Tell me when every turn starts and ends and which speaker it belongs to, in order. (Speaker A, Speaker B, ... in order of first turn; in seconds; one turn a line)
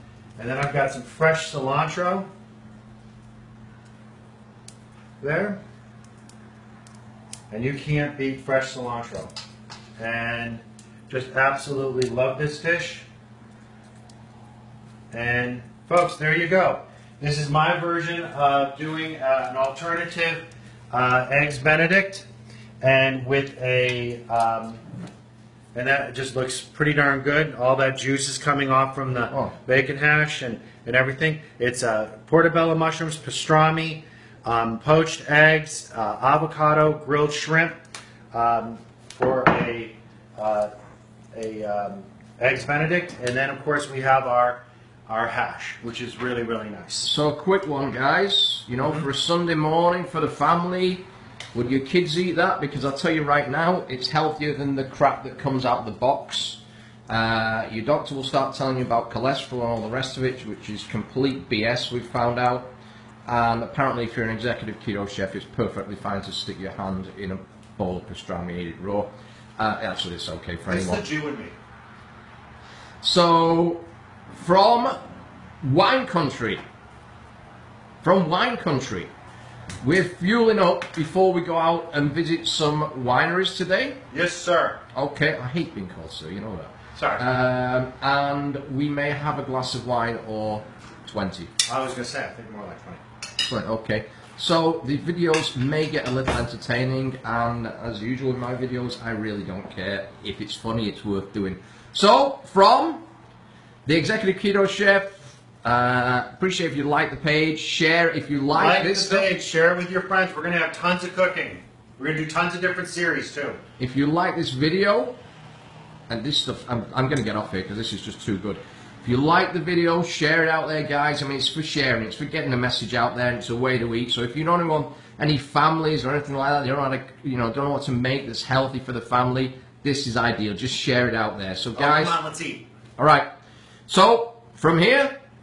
Speaker A: 0.4-2.3
Speaker A: 5.2-5.6
Speaker A: 7.5-9.3
Speaker A: 10.0-13.1
Speaker A: 15.1-22.2
Speaker A: 22.8-24.8
Speaker A: 25.7-37.8
Speaker A: 38.3-40.7
Speaker A: 41.3-47.1
Speaker B: 47.0-62.7
Speaker B: 63.3-71.0
Speaker A: 70.7-71.5
Speaker B: 73.0-75.0
Speaker B: 75.6-76.6
Speaker B: 78.0-79.1
Speaker B: 79.8-84.0
Speaker A: 84.1-84.8
Speaker B: 84.9-91.5
Speaker A: 86.9-87.2
Speaker A: 91.6-93.0
Speaker B: 93.4-103.0
Speaker B: 103.8-109.3
Speaker A: 108.5-113.6
Speaker B: 113.8-115.2
Speaker B: 116.1-132.2
Speaker A: 131.8-132.7
Speaker B: 133.0-133.3
Speaker B: 133.9-135.1